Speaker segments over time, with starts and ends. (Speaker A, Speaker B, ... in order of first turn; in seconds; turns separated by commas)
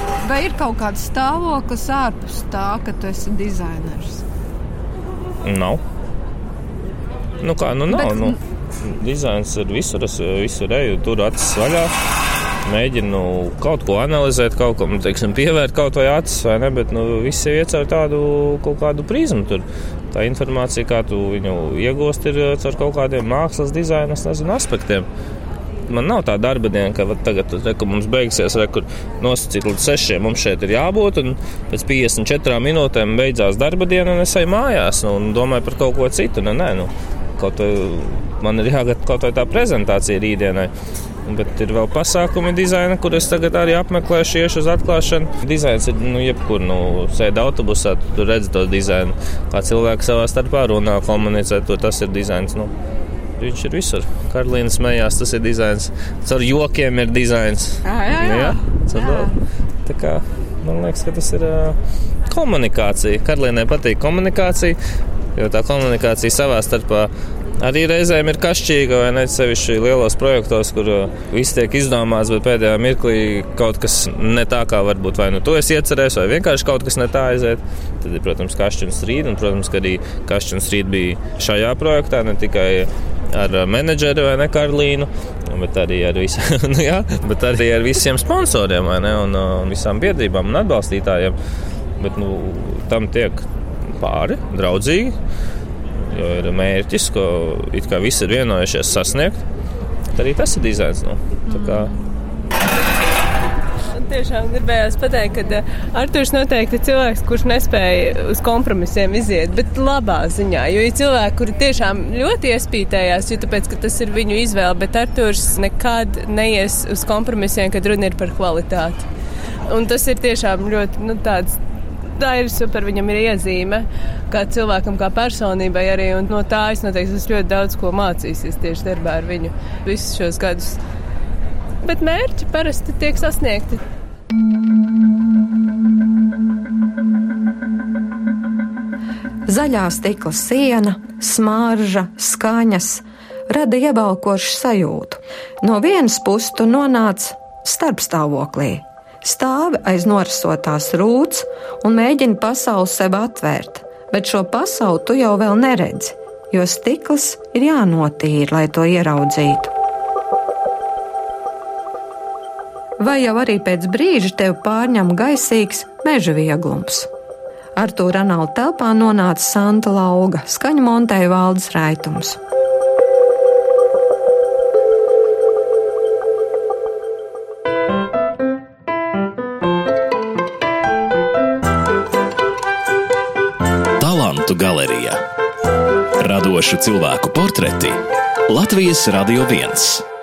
Speaker A: 0.2-4.2, Speaker B: 5.4-5.8, Speaker B: 7.4-11.9, Speaker A: 7.9-8.3, Speaker B: 12.6-25.1, Speaker B: 25.9-40.7, Speaker B: 41.2-52.7, Speaker B: 53.4-59.3, Speaker A: 57.8-59.3, Speaker B: 59.9-61.8, Speaker B: 62.3-64.8, Speaker B: 65.3-91.3, Speaker B: 92.0-93.5, Speaker B: 94.0-95.1, Speaker B: 96.0-99.4, Speaker B: 100.1-101.9, Speaker C: 104.0-119.0, Speaker C: 119.7-121.6, Speaker C: 122.2-130.8, Speaker C: 131.8-133.8, Speaker D: 139.5-159.7, Speaker D: 163.0-167.1, Speaker D: 167.8-172.4, Speaker E: 184.0-185.2, Speaker E: 186.2-190.0